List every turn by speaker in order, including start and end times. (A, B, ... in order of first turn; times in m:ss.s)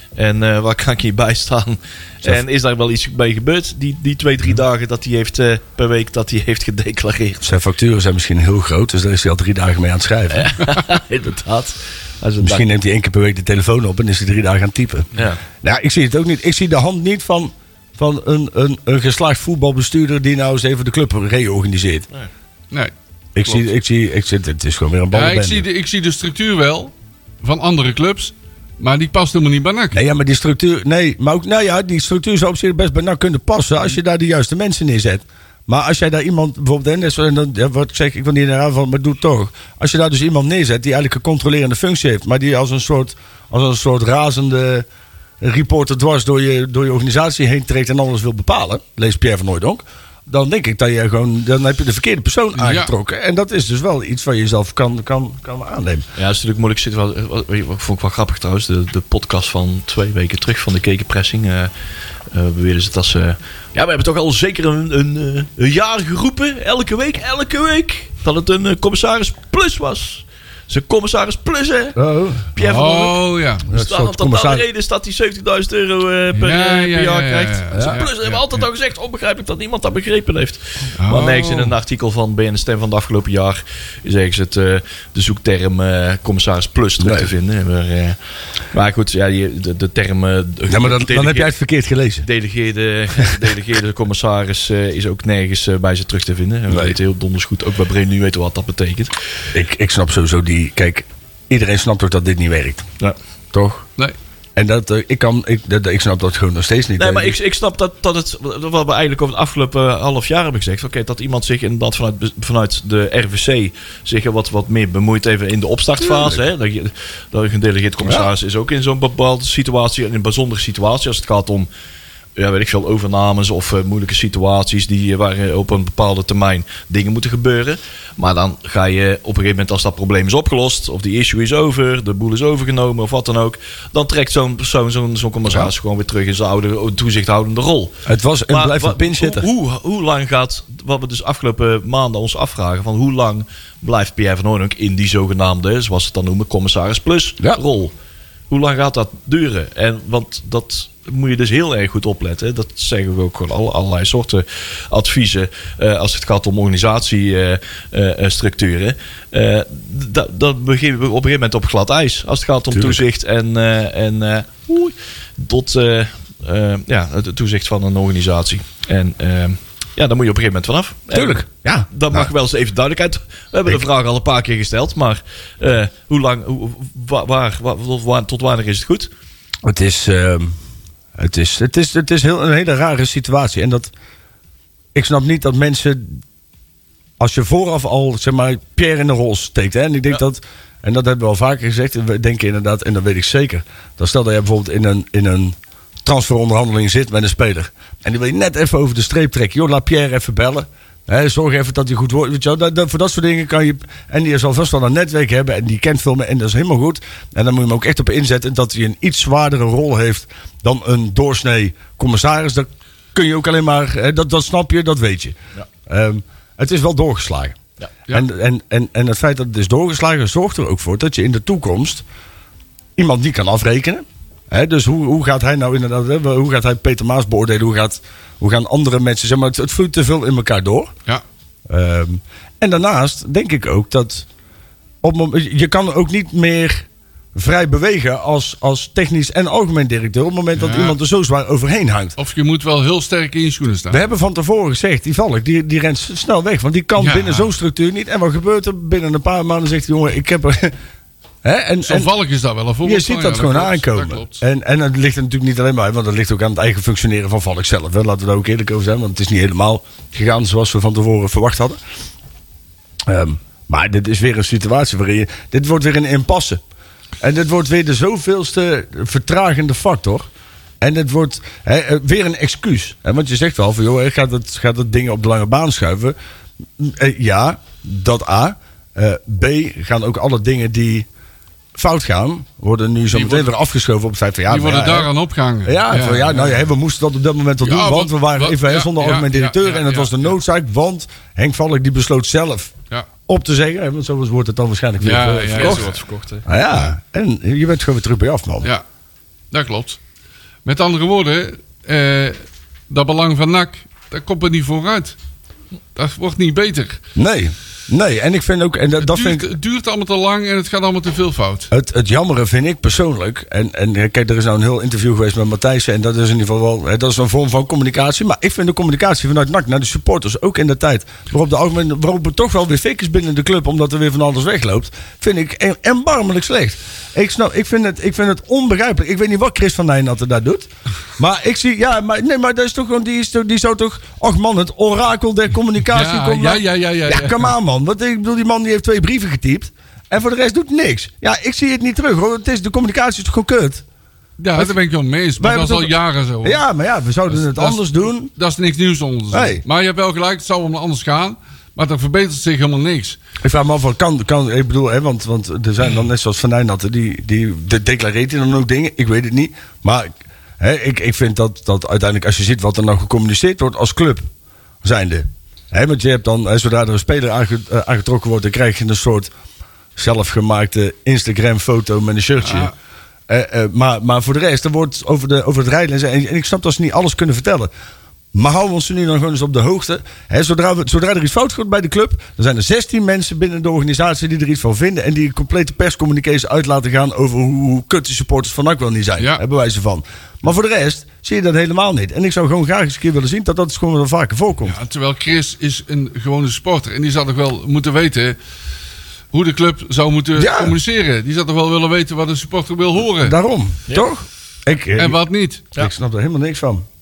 0:00.2-0:07.4 A
0:07.4-0:10.5 B
0:10.3-0:12.7 A
0:12.4-0:22.1 B
0:15.2-0:15.4 A
0:23.3-0:25.6 B
0:25.1-0:26.9 C
0:27.4-0:30.0 C
0:29.9-0:44.8 B
0:45.4-0:56.1 B
0:52.6-0:52.9 C
0:56.2-1:01.7 A
1:02.3-1:12.0 A
1:12.0-1:12.5 B
1:12.5-1:28.2 A
1:12.6-1:13.6 C
1:13.7-1:14.6 B
1:16.3-1:18.6 C
1:17.7-1:18.0 B
1:21.0-1:21.7 C
1:27.0-1:27.3 B
1:28.7-1:31.5 A
1:30.7-1:32.2 B
1:32.2-1:39.1 A
1:36.7-1:36.9 B
1:39.5-1:42.9 B
1:43.5-1:43.8 B
1:44.6-1:47.4 B
1:47.0-2:01.7 A
1:56.0-1:56.4 B
1:58.0-1:58.3 B
2:02.4-2:27.9 A
2:18.0-2:19.5 B
2:28.5-2:59.1 A
2:42.7-2:43.0 B
2:51.1-2:52.3 B
2:59.6-3:00.6 B
3:01.2-3:03.9 B
3:04.9-3:06.2 B
3:07.2-3:35.4 B
3:35.9-3:37.6 B
3:38.1-3:42.0 B
3:43.0-3:50.9 B
3:51.7-3:54.3 B
3:55.0-4:02.2 B
4:00.6-4:01.0 C
4:02.2-4:04.0 C
4:03.9-4:10.8 B
4:07.0-4:07.5 C
4:11.4-4:12.1 B
4:11.8-4:14.4 C
4:12.8-4:21.8 B
4:23.0-4:26.6 B
4:27.2-4:30.2 B
4:30.8-4:36.2 B
4:36.8-4:41.1 B
4:41.7-4:45.1 B
4:43.1-4:43.5 C
4:44.5-4:46.6 C
4:45.6-4:52.7 B
4:47.6-4:50.2 C
4:53.3-4:55.8 B
4:55.0-4:56.0 C
4:55.5-4:56.4 A
4:56.4-4:58.7 B
4:59.5-5:00.0 C
5:00.6-5:05.2 C
5:05.9-5:07.0 C
5:07.1-5:09.5 B
5:09.0-5:11.7 C
5:11.7-5:43.8 B
5:35.9-5:37.5 C
5:44.4-5:46.6 C
5:45.4-5:48.3 B
5:47.3-5:53.2 C
5:49.3-5:49.6 B
5:53.4-6:04.3 B
6:04.8-6:09.3 B
6:10.0-6:12.7 B
6:12.4-6:12.7 C
6:13.3-6:17.7 B
6:18.3-6:34.8 B
6:34.6-6:38.4 C
6:39.3-6:43.4 C
6:40.4-6:40.8 B
6:43.2-6:45.2 B
6:45.0-6:45.6 C
6:45.7-6:46.8 B